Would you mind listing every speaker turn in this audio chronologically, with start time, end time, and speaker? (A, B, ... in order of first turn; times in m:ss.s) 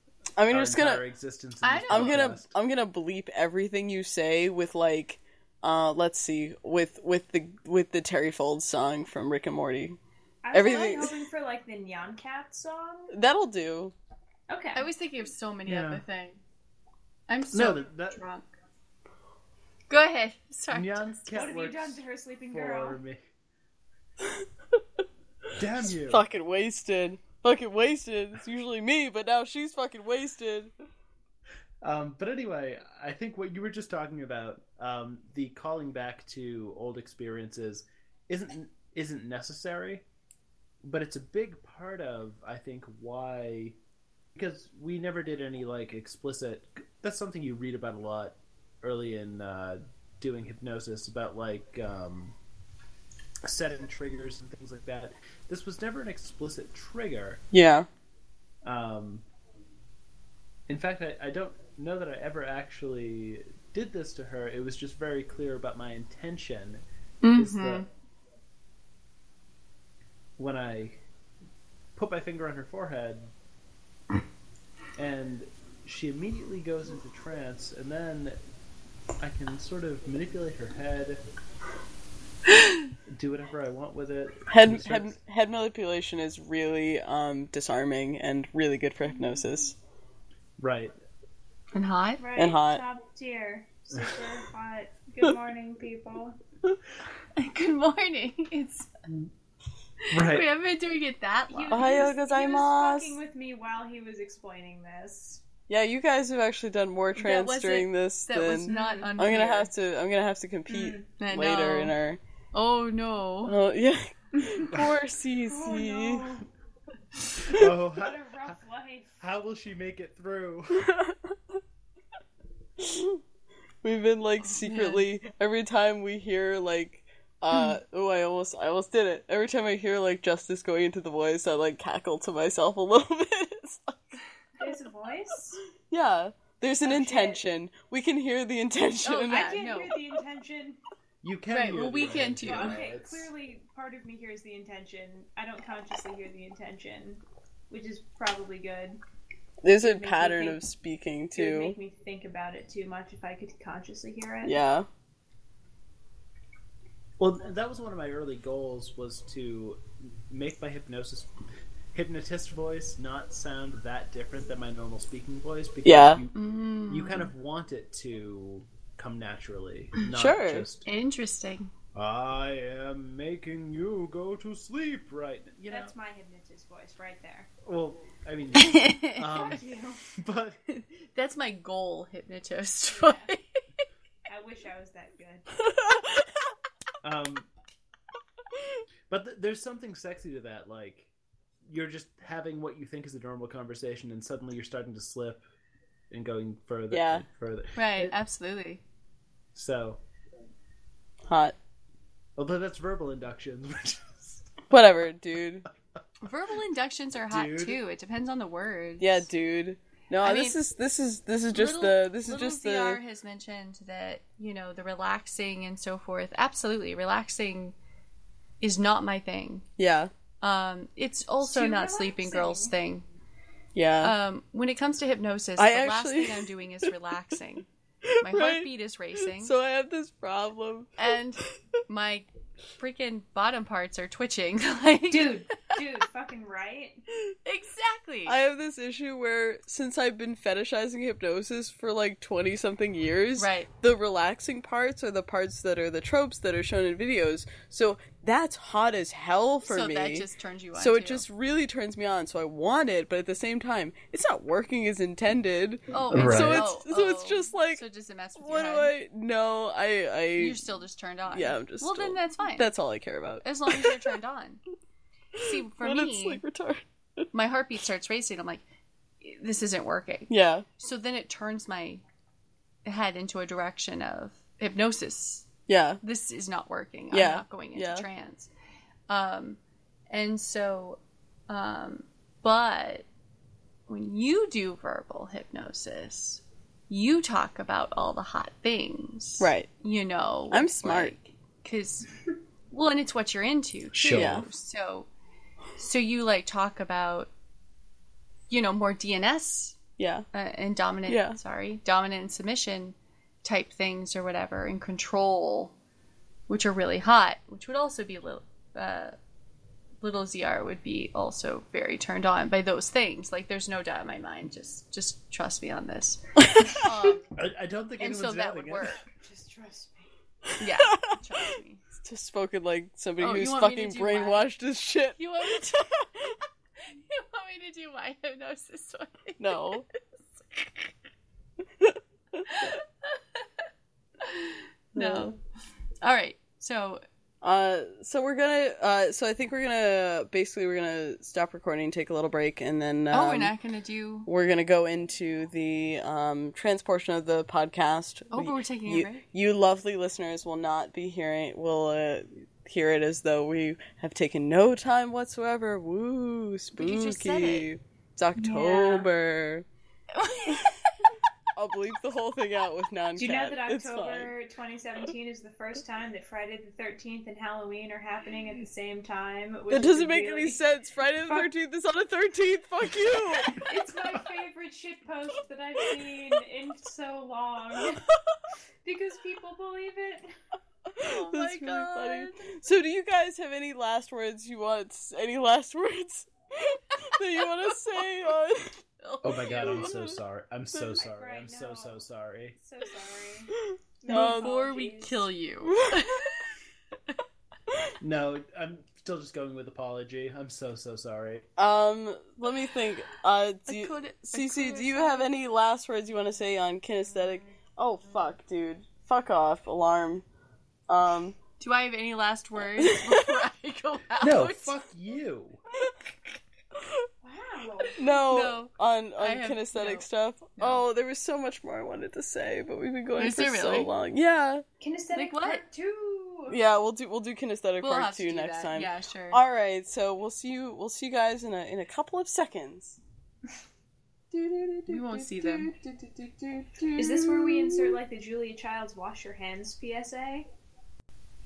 0:00.4-0:01.0 A
0:00.5-0:02.6 B
0:01.6-0:02.3 C
0:01.9-0:10.0 A
0:10.4-0:13.1 D
0:10.5-0:11.2 A
0:13.1-0:13.9 A
0:14.5-0:14.9 D
0:14.8-0:16.4 C
0:15.7-0:16.0 B
0:17.3-0:18.5 C
0:17.5-0:18.2 B
0:19.9-0:21.3 C
0:20.7-0:23.2 B
0:21.3-0:23.0 D
0:25.6-0:26.2 B
0:26.0-0:30.7 A
0:31.8-0:40.0 B
0:40.8-0:43.8 B
0:44.3-0:52.4 B
0:53.4-0:57.4 B
0:57.5-0:57.9 A
0:58.6-0:59.2 B
1:00.7-1:06.8 B
1:07.2-1:07.9 C
1:07.3-1:07.9 B
1:10.4-1:11.0 B
1:12.0-1:13.3 B
1:15.0-1:18.4 B
1:19.2-1:21.2 B
1:23.1-1:25.2 B
1:24.5-1:29.8 A
1:30.6-1:30.9 B
1:31.7-1:32.2 C
1:32.2-1:36.4 D
1:32.4-1:32.8 A
1:37.4-1:38.9 C
1:40.1-1:42.1 C
1:40.1-1:40.5 B
1:41.5-1:45.4 D
1:41.7-1:43.2 A
1:45.7-1:52.2 A
1:47.2-1:49.7 C
1:48.7-1:49.1 D
1:50.7-1:51.1 D
1:51.2-1:52.0 C
1:52.5-1:53.5 C
1:53.4-1:56.3 A
1:54.4-1:54.7 D
1:55.5-1:56.5 D
1:57.5-1:58.2 B
1:57.6-1:59.2 D
1:59.2-2:00.9 B
2:00.9-2:01.2 A
2:02.8-2:03.2 A
2:03.8-2:14.2 A
2:04.6-2:05.1 C
2:14.6-2:15.6 D
2:15.9-2:19.5 A
2:16.8-2:17.4 D
2:19.0-2:20.0 C
2:19.3-2:20.8 D
2:21.2-2:23.3 B
2:21.5-2:22.9 C
2:22.4-2:29.0 D
2:29.6-2:31.8 A
2:29.8-2:30.6 D
2:31.4-2:34.6 D
2:34.4-2:34.9 A
2:37.2-2:41.3 B
2:41.9-2:50.9 B
2:45.8-2:46.2 A
2:46.4-2:47.3 C
2:50.1-2:50.7 A
2:50.9-2:51.7 C
2:51.9-2:55.9 B
2:55.7-2:57.5 D
2:57.6-2:59.6 B
2:58.6-2:59.4 C
2:59.2-3:00.1 D
3:00.1-3:00.6 B
3:00.7-3:03.4 C
3:02.9-3:03.3 D
3:04.3-3:05.5 D
3:07.0-3:07.5 B
3:09.1-3:11.1 B
3:11.7-3:15.4 B
3:16.1-3:18.2 B
3:16.9-3:17.3 A
3:17.8-3:18.8 C
3:19.6-3:20.0 B
3:21.3-3:21.6 A
3:22.4-3:24.5 B
3:24.7-3:25.7 A
3:26.2-3:29.3 C
3:27.3-3:27.8 B
3:29.0-3:33.0 A
3:30.2-3:30.6 C
3:31.5-3:37.8 C
3:38.6-3:39.7 C
3:39.8-3:40.1 A
3:40.4-3:43.0 C
3:41.4-3:42.7 D
3:43.8-3:44.2 A
3:44.0-3:47.7 C
3:45.6-3:46.9 A
3:48.0-3:48.7 A
3:48.2-3:49.5 C
3:49.4-3:51.0 A
3:51.0-3:55.8 C
3:55.1-3:57.0 D
3:57.4-3:58.4 C
3:58.3-4:17.8 A
4:03.4-4:03.7 C
4:09.7-4:11.3 C
4:15.9-4:18.9 C
4:16.1-4:16.7 B
4:18.4-4:20.6 A
4:20.4-4:22.7 C
4:21.3-4:23.9 A
4:23.4-4:24.6 C
4:25.4-4:27.3 A
4:25.4-4:26.4 C
4:27.3-4:28.6 C
4:29.2-4:32.0 C
4:30.3-4:30.7 A
4:32.8-4:35.5 C
4:35.7-4:36.0 A
4:36.0-4:38.5 C
4:37.1-4:38.1 A
4:39.1-4:39.6 C
4:40.1-4:43.1 C
4:43.9-4:52.1 C
4:49.4-4:49.7 A
4:50.5-4:51.1 A
4:52.7-4:55.1 C
4:53.9-4:54.5 B
4:54.1-4:54.4 A
4:55.8-4:57.3 C
4:58.5-4:59.8 C
5:00.0-5:00.3 A
5:00.3-5:05.7 C
5:01.1-5:01.4 A
5:06.5-5:09.2 C
5:10.0-5:17.3 C
5:17.3-5:19.0 B
5:18.0-5:19.0 C
5:19.2-5:20.1 D
5:20.5-5:21.2 A
5:20.6-5:21.8 C
5:22.0-5:25.6 A
5:23.2-5:24.5 C
5:25.2-5:26.3 C
5:26.9-5:30.9 C
5:29.4-5:29.8 A
5:32.4-5:33.6 C
5:34.2-5:35.4 C
5:34.9-5:35.4 A
5:36.0-5:37.0 C
5:37.4-5:43.5 A
5:43.1-5:44.3 C
5:44.2-5:59.7 A
5:48.3-5:49.2 C
5:56.8-5:57.7 C
5:58.4-5:59.0 D
5:58.5-5:59.0 C
6:00.1-6:01.1 C
6:01.6-6:04.3 A
6:03.2-6:10.6 D
6:09.7-6:13.6 A
6:11.2-6:11.5 D
6:13.5-6:18.1 D
6:18.8-6:20.3 D
6:20.9-6:28.8 A
6:21.0-6:22.5 C
6:29.0-6:30.2 C
6:29.2-6:32.6 B
6:29.8-6:30.1 A
6:31.0-6:32.0 D
6:32.6-6:35.3 D
6:33.6-6:34.6 A
6:34.1-6:36.5 C
6:35.6-6:36.0 A
6:38.0-6:41.5 B
6:41.6-6:50.2 A
6:43.7-6:45.3 C
6:50.9-6:51.4 A
6:51.6-6:54.8 C
6:52.7-6:53.4 A
6:54.2-6:55.6 B
6:57.2-6:58.0 D
6:58.0-7:04.6 A
6:58.1-7:00.1 C
7:00.6-7:00.8 C
7:03.2-7:03.9 C
7:04.8-7:06.6 D
7:05.1-7:05.6 C
7:06.5-7:13.0 A
7:07.8-7:09.4 C
7:14.3-7:18.0 A
7:14.9-7:15.7 C
7:17.0-7:20.5 D